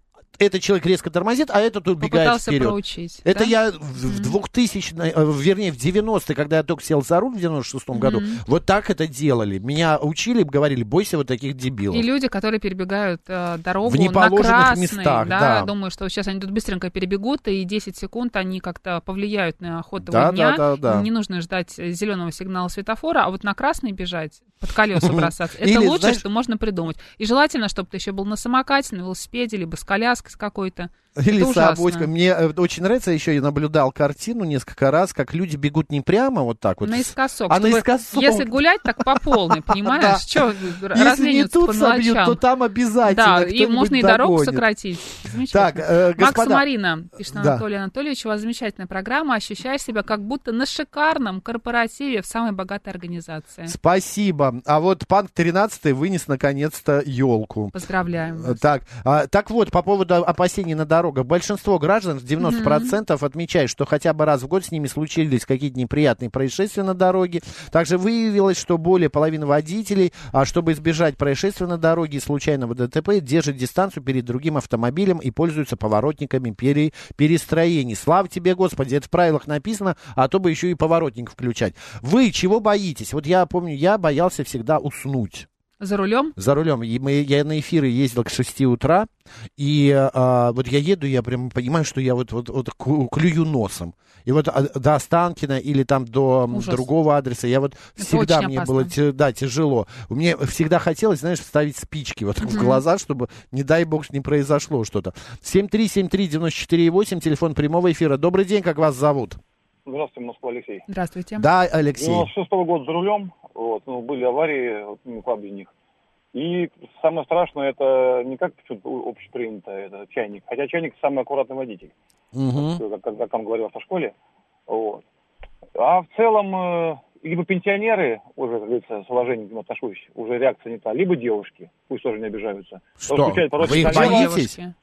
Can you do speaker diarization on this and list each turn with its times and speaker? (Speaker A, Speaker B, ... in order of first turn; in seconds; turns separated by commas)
Speaker A: 0.4-12.1, Speaker B: 2.0-3.5, Speaker B: 4.0-4.3, Speaker B: 7.9-8.4, Speaker B: 11.9-32.1, Speaker A: 13.8-15.7, Speaker A: 20.0-21.1, Speaker A: 25.0-26.2, Speaker A: 31.1-44.6, Speaker B: 36.8-42.4, Speaker B: 43.0-53.7, Speaker A: 45.5-46.6, Speaker A: 47.3-47.6, Speaker A: 53.7-57.8, Speaker B: 57.7-58.6, Speaker A: 58.3-85.5, Speaker B: 62.4-62.9, Speaker B: 85.8-86.3, Speaker A: 86.4-109.4, Speaker B: 96.5-96.9, Speaker B: 98.0-98.9, Speaker B: 102.4-102.8, Speaker C: 109.8-110.8, Speaker B: 110.9-111.5, Speaker A: 111.4-112.3, Speaker C: 112.0-115.7, Speaker C: 116.3-121.9, Speaker A: 122.3-122.8, Speaker C: 122.6-124.1, Speaker C: 124.7-125.0, Speaker C: 125.8-134.3, Speaker A: 133.0-134.6, Speaker B: 133.6-134.7